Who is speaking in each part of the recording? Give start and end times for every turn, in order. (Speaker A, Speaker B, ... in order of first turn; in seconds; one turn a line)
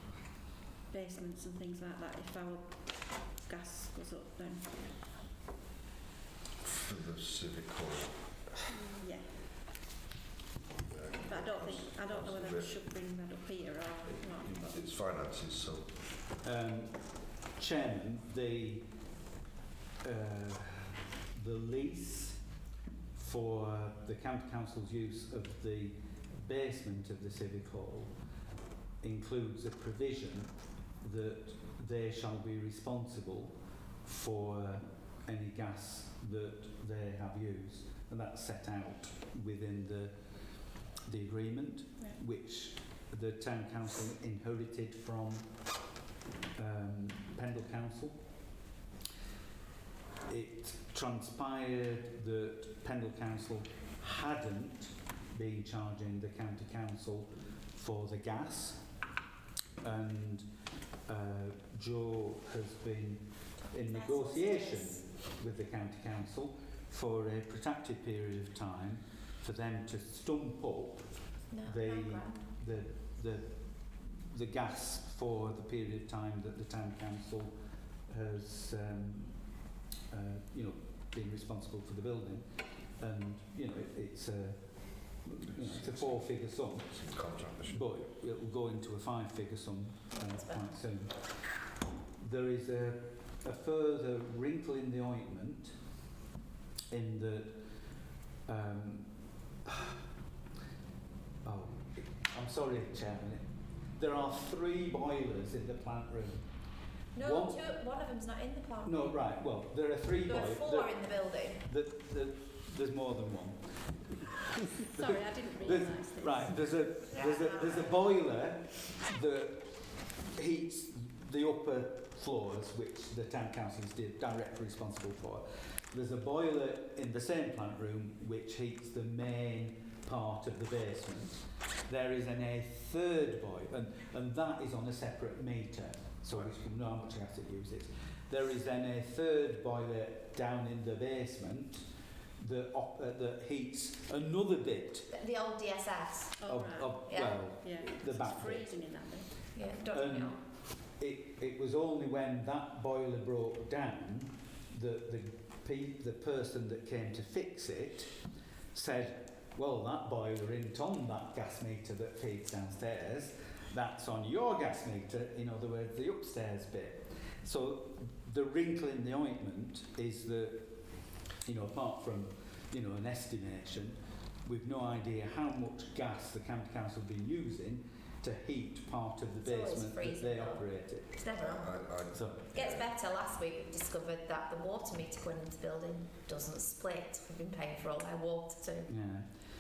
Speaker A: 0.9-5.0
Speaker B: 6.6-8.4
Speaker A: 8.7-9.3
Speaker B: 10.8-12.9
Speaker A: 11.2-14.8
Speaker B: 14.0-15.9
Speaker C: 16.4-18.9
Speaker C: 20.0-22.4
Speaker C: 23.1-28.1
Speaker C: 29.0-40.1
Speaker C: 40.8-45.5
Speaker C: 46.6-48.2
Speaker C: 50.2-58.9
Speaker C: 59.8-60.5
Speaker C: 61.1-77.5
Speaker D: 63.7-65.1
Speaker D: 71.5-72.5
Speaker C: 78.1-82.5
Speaker C: 83.0-91.3
Speaker B: 85.4-87.9
Speaker D: 90.1-90.8
Speaker C: 92.2-95.8
Speaker C: 96.9-97.6
Speaker C: 98.5-99.1
Speaker C: 99.7-100.0
Speaker C: 101.4-106.5
Speaker D: 107.1-109.3
Speaker C: 107.2-107.7
Speaker C: 108.8-113.7
Speaker D: 110.2-111.6
Speaker A: 114.8-116.7
Speaker C: 114.9-141.9
Speaker D: 117.1-118.0
Speaker B: 136.3-136.6
Speaker C: 142.4-145.1
Speaker D: 145.1-146.4
Speaker A: 146.4-149.3
Speaker C: 146.4-149.0
Speaker D: 147.1-147.4
Speaker D: 149.5-150.4
Speaker C: 149.8-158.2
Speaker C: 158.7-170.7
Speaker C: 171.4-181.3
Speaker D: 179.4-181.9
Speaker B: 181.3-183.0
Speaker C: 182.1-182.5
Speaker D: 182.5-188.9
Speaker C: 188.9-189.2